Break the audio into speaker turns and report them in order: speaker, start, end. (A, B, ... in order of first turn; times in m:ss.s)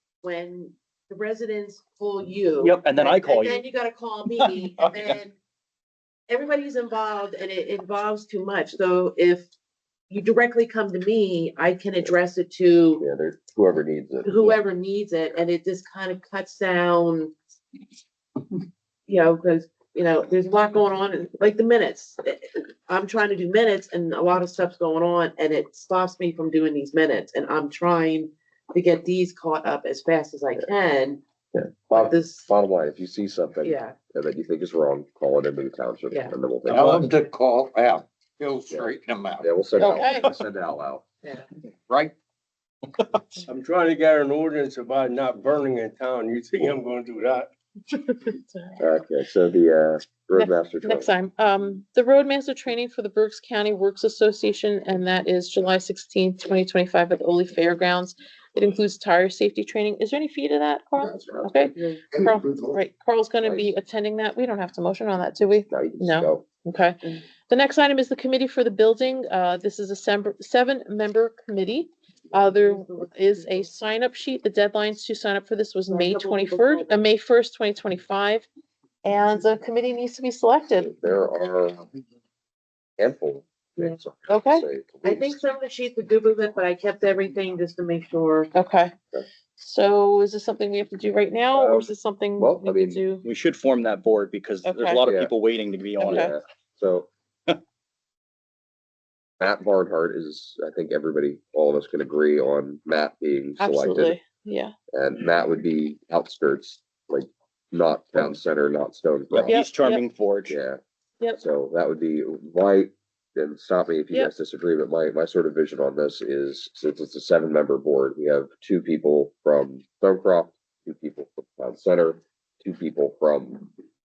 0:00.2-0:05.4 A
0:02.6-0:03.6 B
0:06.3-0:09.5 A
0:10.1-0:13.0 A
0:13.0-0:14.6 C
0:14.2-0:17.3 A
0:19.1-0:31.2 A
0:31.5-0:37.0 C
0:31.9-0:32.5 A
0:33.6-0:34.0 A
0:36.7-0:40.2 D
0:38.7-0:41.0 C
0:39.8-0:40.3 E
0:41.9-0:42.1 D
0:43.4-0:47.5 F
0:47.9-0:48.8 E
0:48.8-0:51.1 C
0:50.3-1:18.5 E
1:01.0-1:01.7 C
1:01.7-1:02.0 A
1:02.1-1:02.8 D
1:03.4-1:03.7 C
1:05.7-1:06.4 C
1:12.3-1:13.7 A
1:15.9-1:17.0 A
1:19.0-1:20.9 E
1:20.8-1:21.9 C
1:23.0-1:25.4 C
1:24.3-1:24.6 E
1:25.0-1:28.5 A
1:28.5-1:29.0 E
1:29.6-1:33.2 E
1:31.5-1:33.0 C
1:33.2-1:36.3 B
1:34.6-1:35.0 E
1:35.0-1:35.3 C
1:36.0-1:36.3 E
1:36.0-1:37.1 C
1:39.4-1:44.2 C
1:43.6-1:44.7 E
1:44.9-1:49.5 C
1:49.3-1:50.6 B
1:49.5-1:50.0 E
1:50.5-1:50.8 C
1:51.4-2:03.7 C